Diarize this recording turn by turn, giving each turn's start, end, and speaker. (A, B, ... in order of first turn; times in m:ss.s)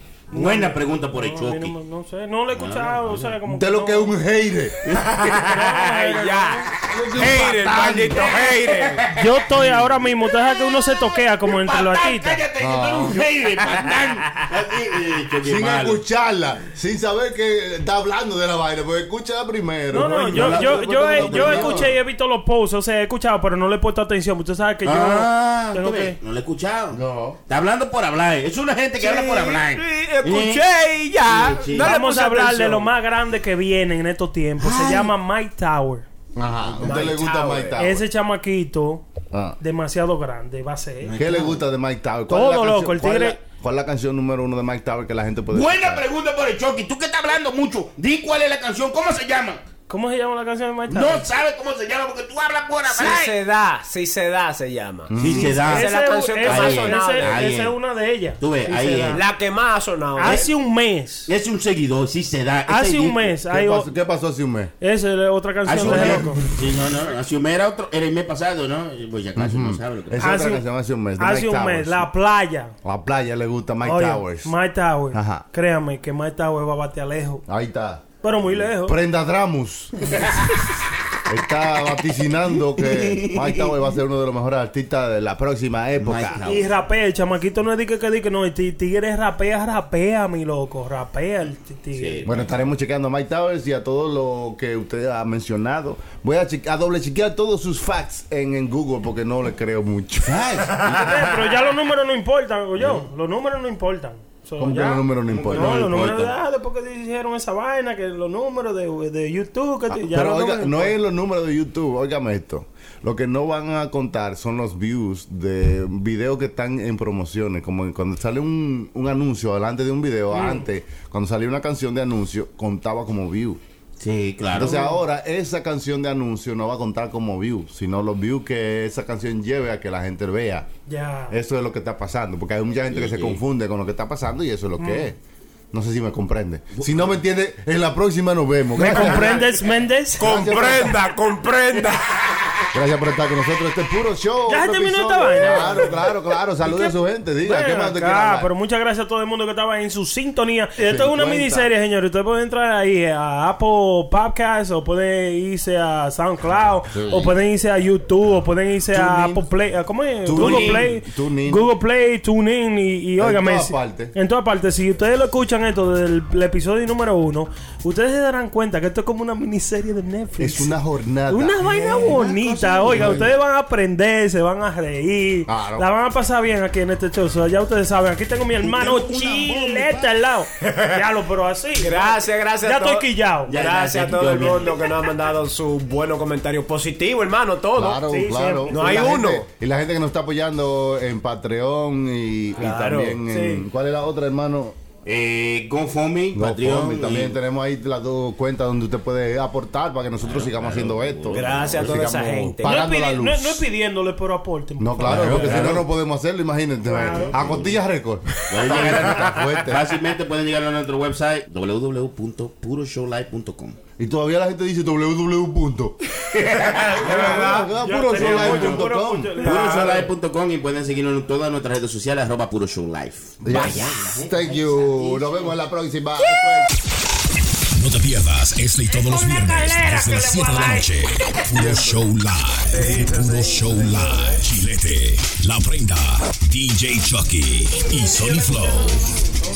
0:00.3-0:01.7 A
0:00.3-0:04.2 B
0:02.5-0:03.4 A
0:03.5-0:04.8 C
0:04.8-0:05.6 A
0:04.9-0:09.0 D
0:05.4-0:06.7 B
0:06.8-0:09.9 A
0:06.8-0:08.3 C
0:09.2-0:12.4 B
0:09.5-0:09.9 C
0:10.4-0:16.0 A
0:12.6-0:13.2 C
0:15.4-0:21.9 C
0:19.9-0:26.2 B
0:20.0-0:20.9 D
0:20.3-0:21.9 A
0:24.8-0:30.6 A
0:26.9-0:27.4 C
0:29.0-0:32.9 D
0:31.2-0:32.0 A
0:31.8-0:36.0 B
0:34.6-0:35.1 A
0:36.4-0:38.0 C
0:36.7-0:37.1 A
0:36.8-0:37.8 D
0:37.8-0:39.0 B
0:39.3-0:39.6 C
0:39.6-0:41.2 B
0:41.0-0:41.6 A
0:41.2-0:46.0 C
0:42.3-0:43.4 B
0:45.5-0:49.6 A
0:49.9-0:51.2 B
0:50.9-0:53.4 A
0:52.9-0:57.4 D
0:55.1-0:55.7 C
0:55.2-0:57.8 A
0:55.4-0:59.2 B
0:58.4-0:59.2 A
0:59.1-1:00.5 D
1:00.2-1:01.3 B
1:01.3-1:03.3 A
1:02.7-1:03.9 B
1:03.4-1:04.7 C
1:04.8-1:06.4 B
1:05.6-1:10.4 A
1:05.8-1:06.5 C
1:09.4-1:12.0 C
1:10.2-1:10.6 B
1:11.2-1:12.7 B
1:12.8-1:14.5 C
1:13.8-1:17.4 B
1:15.1-1:15.4 C
1:17.4-1:20.4 C
1:18.2-1:19.0 B
1:21.3-1:26.4 C
1:22.7-1:23.8 A
1:26.0-1:26.7 A
1:26.4-1:32.3 B
1:31.9-1:32.7 A
1:32.2-1:40.8 C
1:40.2-1:41.2 A
1:40.9-1:50.9 B
1:44.6-1:46.2 C
1:45.2-1:46.3 A
1:49.9-2:03.6 C
2:00.3-2:00.6 B
2:04.0-2:04.9 A
2:04.5-2:10.7 C
2:04.6-2:05.0 B
2:10.9-2:11.3 B
2:11.3-2:15.2 C
2:12.9-2:13.4 A
2:14.8-2:15.1 B
2:15.7-2:19.6 C
2:16.7-2:17.2 A
2:18.7-2:20.3 B
2:18.9-2:19.4 D
2:20.2-2:22.7 D
2:20.2-2:21.0 C
2:22.7-2:28.5 C
2:24.5-2:26.0 B
2:26.6-2:50.8 B
2:30.8-2:31.7 C
2:36.9-2:37.3 C
2:38.9-2:39.5 C
2:40.2-2:41.7 C
2:40.3-2:40.9 D
2:43.2-2:44.1 C
2:50.4-2:51.6 C
2:51.3-3:03.6 B
2:51.6-2:53.3 A
2:52.9-2:53.3 C
2:55.5-2:55.9 C
2:58.6-3:00.1 A
3:00.6-3:01.0 D
3:01.8-3:08.0 D
3:03.5-3:05.0 A
3:07.8-3:14.7 C
3:07.8-3:09.1 B
3:08.7-3:09.4 D
3:12.6-3:13.2 D
3:13.3-3:13.6 B
3:15.0-3:17.4 A
3:16.3-3:23.6 C
3:20.2-3:22.1 A
3:21.3-3:22.8 D
3:22.6-3:25.6 B
3:24.8-3:29.9 C
3:25.0-3:25.9 A
3:26.9-3:27.3 B
3:26.9-3:27.8 A
3:28.5-3:33.8 A
3:34.0-3:36.0 C
3:36.3-3:37.5 A
3:36.5-3:40.1 D
3:37.0-3:39.3 C
3:37.1-3:40.0 B
3:38.2-3:38.8 A
3:39.4-3:45.5 A
3:43.4-3:46.7 C
3:43.5-3:43.9 D
3:47.7-3:59.2 E
3:49.0-3:51.7 D
3:52.7-3:54.4 D